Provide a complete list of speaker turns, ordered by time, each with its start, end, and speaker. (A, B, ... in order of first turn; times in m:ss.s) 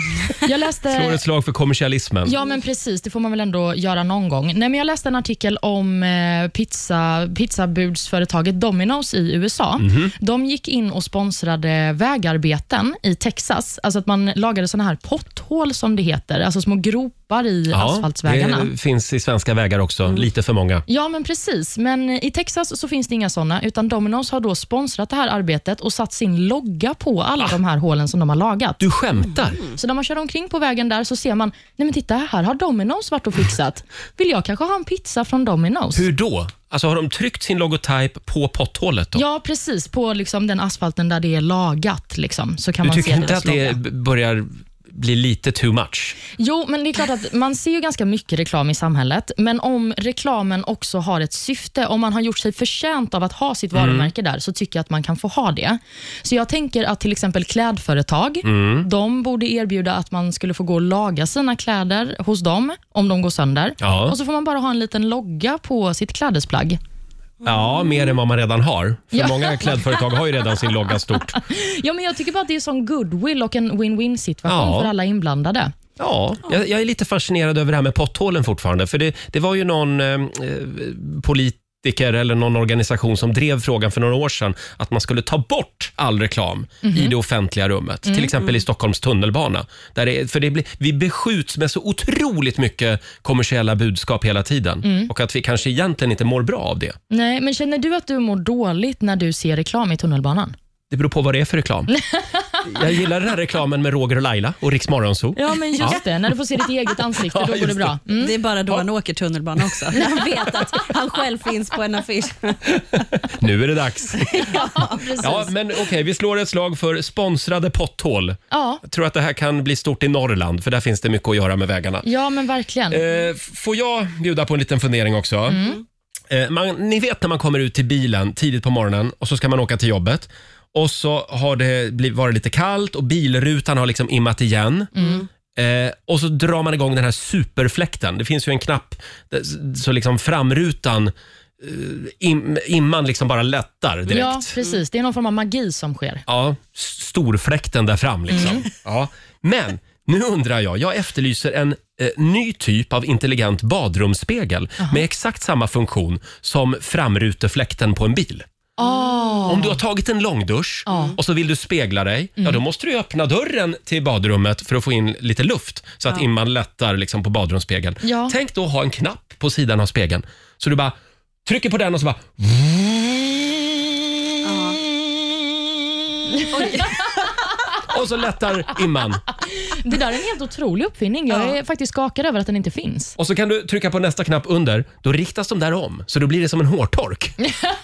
0:00.4-0:01.2 A
0:00.9-0:02.4 B
0:02.2-0:18.7 A
0:09.8-0:10.1 B
0:17.7-0:20.8 B
0:20.9-0:28.8 A
0:28.8-0:29.6 B
0:29.8-0:36.0 A
0:35.9-0:39.2 B
0:39.1-0:43.8 A
0:42.8-0:46.2 B
0:46.4-1:06.8 A
0:53.7-0:54.1 B
0:58.4-0:58.9 B
1:03.8-1:04.2 B
1:07.4-1:08.0 C
1:07.4-1:11.4 B
1:09.1-1:09.7 A
1:11.3-1:15.7 A
1:14.4-1:14.9 B
1:16.0-1:37.0 B
1:26.8-1:27.1 A
1:28.1-1:28.3 A
1:34.8-1:35.1 A
1:37.1-1:40.6 A
1:40.9-1:41.9 B
1:41.9-1:42.7 A
1:42.6-1:46.0 B
1:45.4-1:48.3 A
1:47.2-1:48.0 B
1:48.2-1:52.8 C
1:49.9-1:50.2 A
1:53.4-1:54.5 B
1:54.3-1:55.0 C
1:54.5-1:55.5 A
1:55.2-2:02.1 B
1:58.5-1:58.8 A
2:02.0-2:03.0 A
2:02.9-2:05.6 B
2:05.5-2:05.8 A
2:06.3-2:14.9 B
2:15.0-2:15.2 A
2:15.0-2:15.2 C
2:15.6-2:24.5 B
2:24.1-2:26.2 A
2:26.3-2:38.5 B
2:28.3-2:28.6 A
2:38.8-2:39.8 A
2:39.5-2:53.4 B
2:40.9-2:41.2 A
2:48.0-2:48.4 A
2:54.4-2:54.8 C
2:56.3-2:56.9 A
2:56.5-2:57.2 C
2:57.9-2:59.2 B
2:59.4-3:03.2 A
3:03.2-3:07.4 B